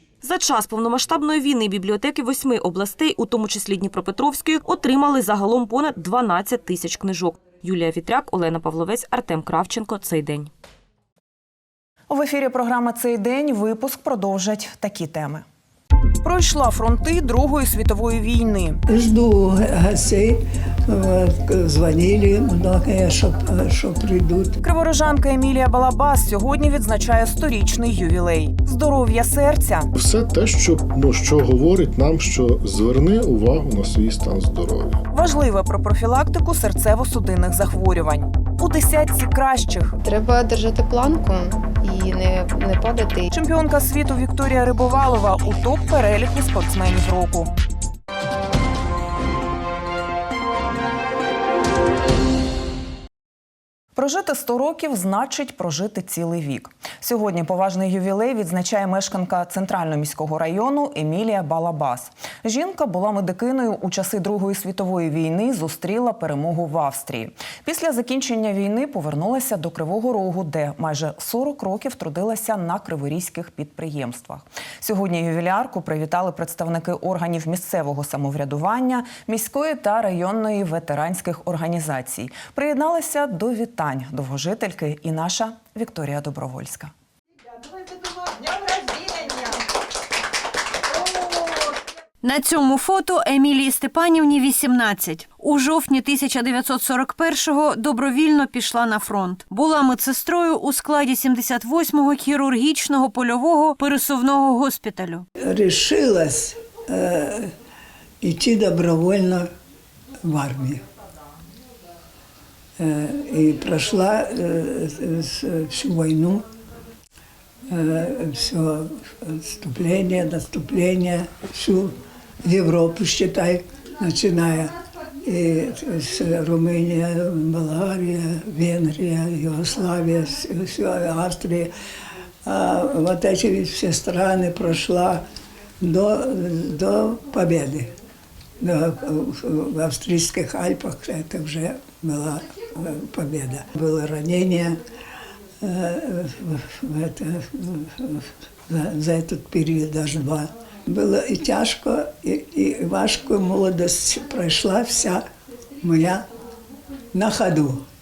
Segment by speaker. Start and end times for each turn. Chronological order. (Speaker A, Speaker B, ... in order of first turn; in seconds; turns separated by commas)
Speaker A: 0.2-10.5, Speaker B: 12.1-15.4, Speaker B: 16.2-18.8, Speaker C: 18.9-24.6, Speaker B: 24.6-29.9, Speaker D: 29.9-35.0, Speaker B: 35.1-40.0, Speaker E: 40.0-43.3, Speaker B: 43.3-47.5, Speaker B: 54.0-86.9, Speaker F: 92.2-105.3, Speaker C: 105.4-107.5, Speaker C: 108.2-109.5, Speaker C: 110.2-110.8, Speaker C: 112.8-116.5, Speaker C: 117.7-124.7, Speaker C: 125.2-131.7, Speaker C: 132.4-135.2, Speaker C: 135.8-137.9, Speaker C: 138.6-144.8, Speaker C: 145.6-155.3, Speaker C: 155.8-156.3, Speaker C: 157.1-157.8